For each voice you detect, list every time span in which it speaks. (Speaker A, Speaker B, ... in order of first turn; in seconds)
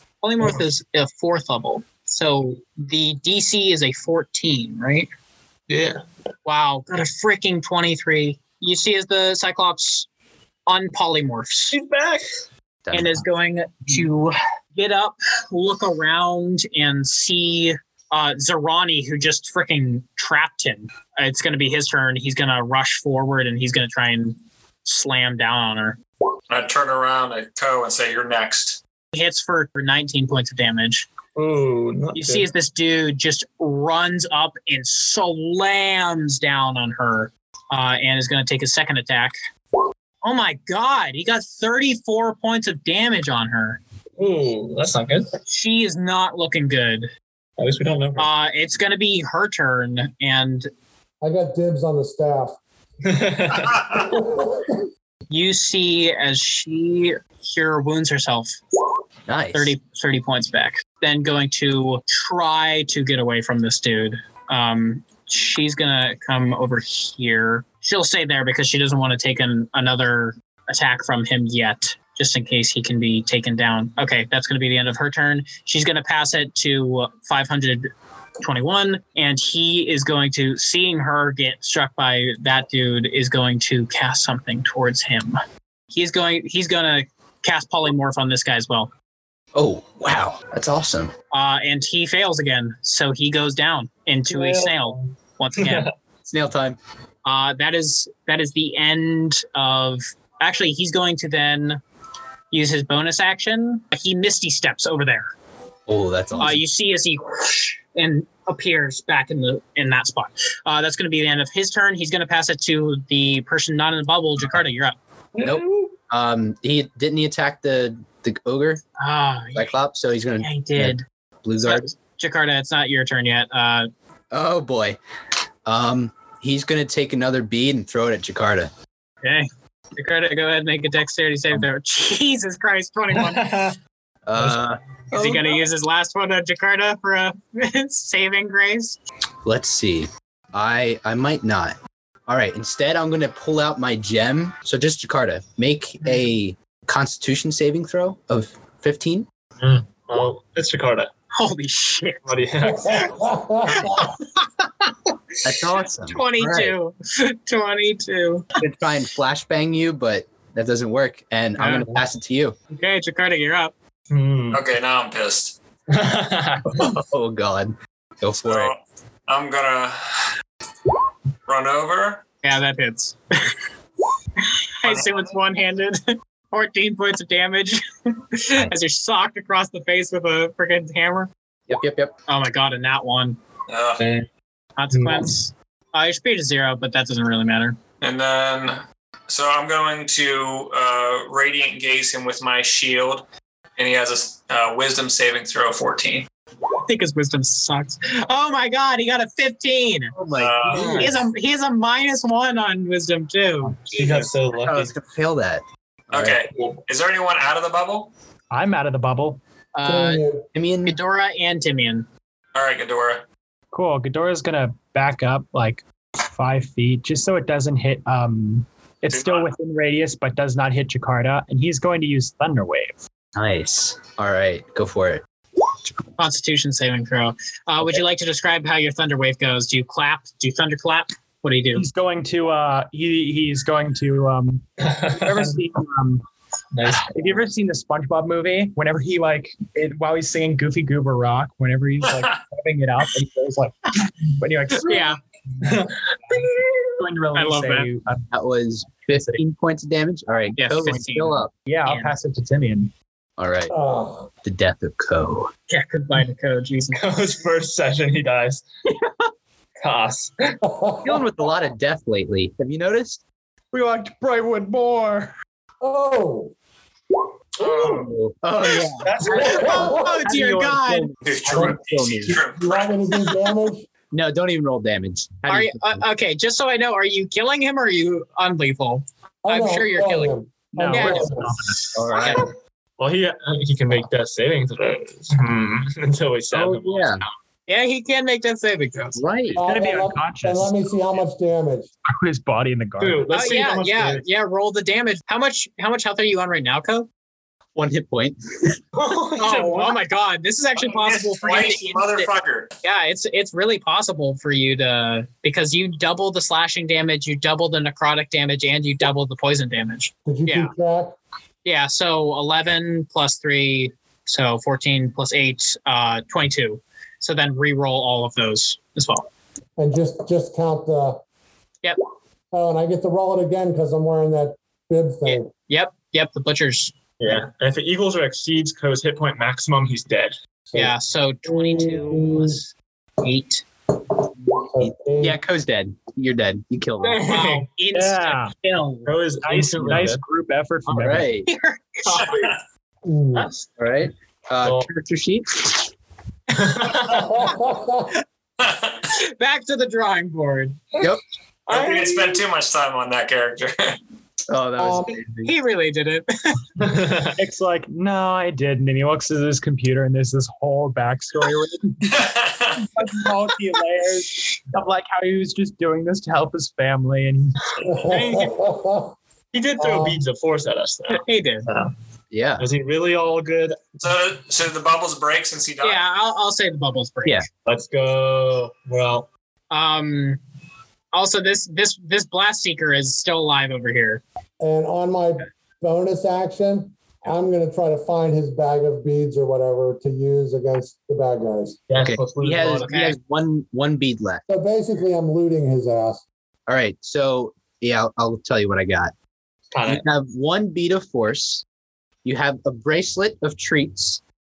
Speaker A: 0.2-5.1, 6.5-10.1, 10.7-11.8, 12.9-26.0, 29.1-31.1, 32.1-39.4, 40.2-43.8, 45.5-47.1, 48.2-50.7, 55.3-58.6, 59.5-77.9, 78.4-85.4, 85.9-88.9, 91.3-95.9, 97.2-101.8, 102.5-105.3, 106.4-115.0, 119.0-119.7, 120.4-121.0, 121.6-123.9, 129.2-133.7, 135.1-139.0, 151.3-152.3, 153.8-154.2, 155.6-158.5, 161.6-162.0, 162.7-163.7, 172.4-173.4, 174.8-181.3, 182.3-183.4, 184.8-187.8, 196.8-200.1, 200.9-203.8, 209.7-210.2, 210.8-212.1, 226.2-231.9, 244.8-245.2, 247.3-247.9, 250.6-252.2, 255.7-257.0, 269.4-271.1, 275.5-280.3, 280.9-281.4, 282.2-282.5, 287.7-289.2, 293.3-297.1, 299.4-302.3, 302.8-310.7, 311.6-319.3, 325.2-327.0, 330.7-332.7, 333.2-333.6, 337.2-339.1, 341.5-342.6, 349.2-350.8, 355.4-356.6, 371.1-371.7, 375.8-377.4, 379.7-380.4, 381.1-384.2, 392.8-393.2
Speaker B: 5.7-6.0, 11.7-12.2, 31.4-32.5, 44.2-45.3, 47.6-48.3, 53.0-54.0, 94.3-95.9, 115.4-115.9, 133.2-133.8, 149.6-151.1, 152.3-153.3, 164.1-164.6, 165.9-166.9, 184.0-184.3, 184.9-185.3, 200.7-201.1, 203.9-204.9, 206.5-206.8, 234.8-235.6, 236.7-237.1, 245.6-246.6, 256.9-258.6, 259.8-260.6, 269.0-269.9, 283.0-287.3, 293.0-294.2, 298.9-300.0, 327.2-330.3, 337.0-337.7, 339.1-340.2, 344.6-344.9, 346.5-347.4, 351.7-352.4, 356.8-357.4, 367.9-368.6, 369.5-371.9, 372.6-374.2, 377.6-379.3, 391.9-392.9, 399.7-400.1
Speaker C: 12.9-13.3, 59.3-59.8, 89.5-91.1, 96.2-96.8, 105.9-106.6, 115.4-118.8, 119.5-121.9, 124.3-125.0, 125.7-128.7, 134.3-135.5, 139.4-141.8, 142.3-149.3, 155.4-156.8, 158.6-162.6, 166.7-168.7, 181.7-182.1, 200.1-201.2, 204.0-206.4, 210.5-211.0, 223.3-225.9, 248.3-251.5, 253.4-253.7, 254.4-255.5, 261.0-263.2, 267.6-272.4, 274.1-276.0, 281.9-282.5, 286.5-287.2, 289.1-289.6, 297.8-298.8, 334.8-337.4, 340.9-341.5, 343.8-345.9, 354.5-355.6, 372.3-372.7, 392.0-394.4, 396.7-399.1, 399.8-401.6, 402.2-404.2
Speaker D: 26.5-28.8, 164.5-165.6, 168.4-170.3, 171.5-172.2, 174.8-175.3, 183.7-184.0, 188.0-193.2, 193.8-196.3, 200.4-201.0, 206.1-208.1, 212.6-213.2, 219.1-219.5, 267.6-268.1, 271.2-273.4, 300.8-302.7, 348.6-349.0, 351.7-354.0, 362.1-362.9, 374.0-376.0
Speaker E: 51.2-52.5, 54.0-54.8, 152.8-153.9, 209.8-210.4, 253.7-254.3, 260.6-261.2, 265.8-266.5, 269.3-270.2, 271.5-273.9, 279.4-281.6, 289.5-291.9, 310.3-311.2, 319.8-321.2, 322.5-325.5, 331.5-332.6, 334.7-335.4, 343.1-343.5, 347.3-348.1, 354.8-355.1, 367.8-369.1, 369.8-370.2, 384.6-391.8, 394.5-396.2
Speaker F: 208.5-209.4, 213.7-223.0, 231.8-236.2, 236.9-245.1, 246.3-248.3, 249.1-249.4, 251.7-252.9, 263.7-265.3, 280.8-281.9, 289.6-290.9, 292.1-293.3, 337.9-338.6, 339.4-341.4, 357.4-362.2, 362.8-367.6